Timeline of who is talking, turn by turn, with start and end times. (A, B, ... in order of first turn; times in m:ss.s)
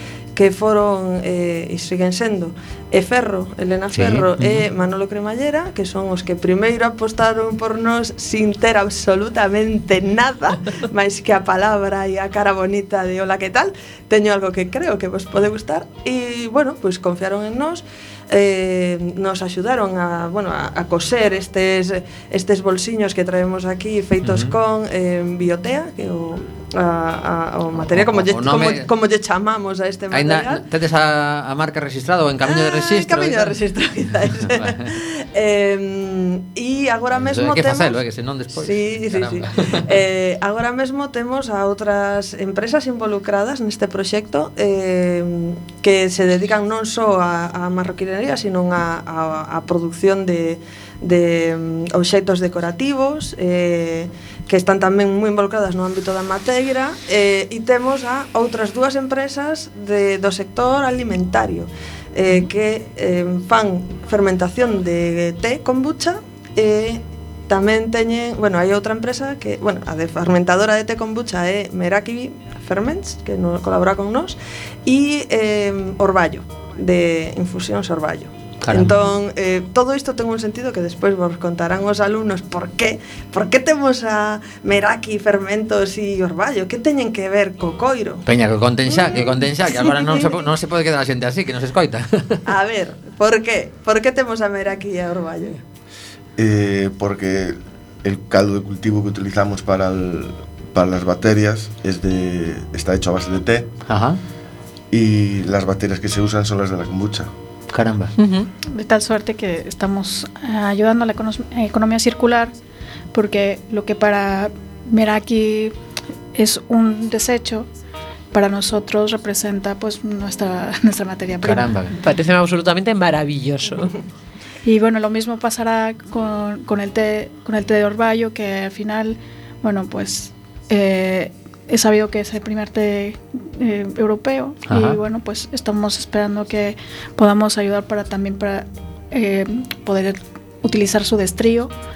0:00.4-0:30.6 A
0:03.9-0:04.6 B
0:24.2-0:24.5 B
0:27.8-0:28.9 B
0:30.1-0:33.5 B
0:32.4-0:38.0 A
0:34.5-0:34.8 B
0:37.2-0:40.0 B
0:38.6-1:28.2 A
1:18.6-1:19.0 B
1:28.3-1:32.4 B
1:28.9-1:30.5 A
1:32.5-1:35.6 A
1:36.4-1:43.7 C
1:43.9-1:44.2 B
1:44.9-1:47.3 C
1:47.7-1:48.1 B
1:48.2-1:48.5 D
1:48.6-1:52.5 E
1:53.1-1:55.7 E
1:56.4-1:57.7 E
1:58.3-2:01.7 E
2:01.4-2:01.9 B
2:01.9-2:03.9 D
2:04.6-2:21.7 E
2:14.7-2:15.0 B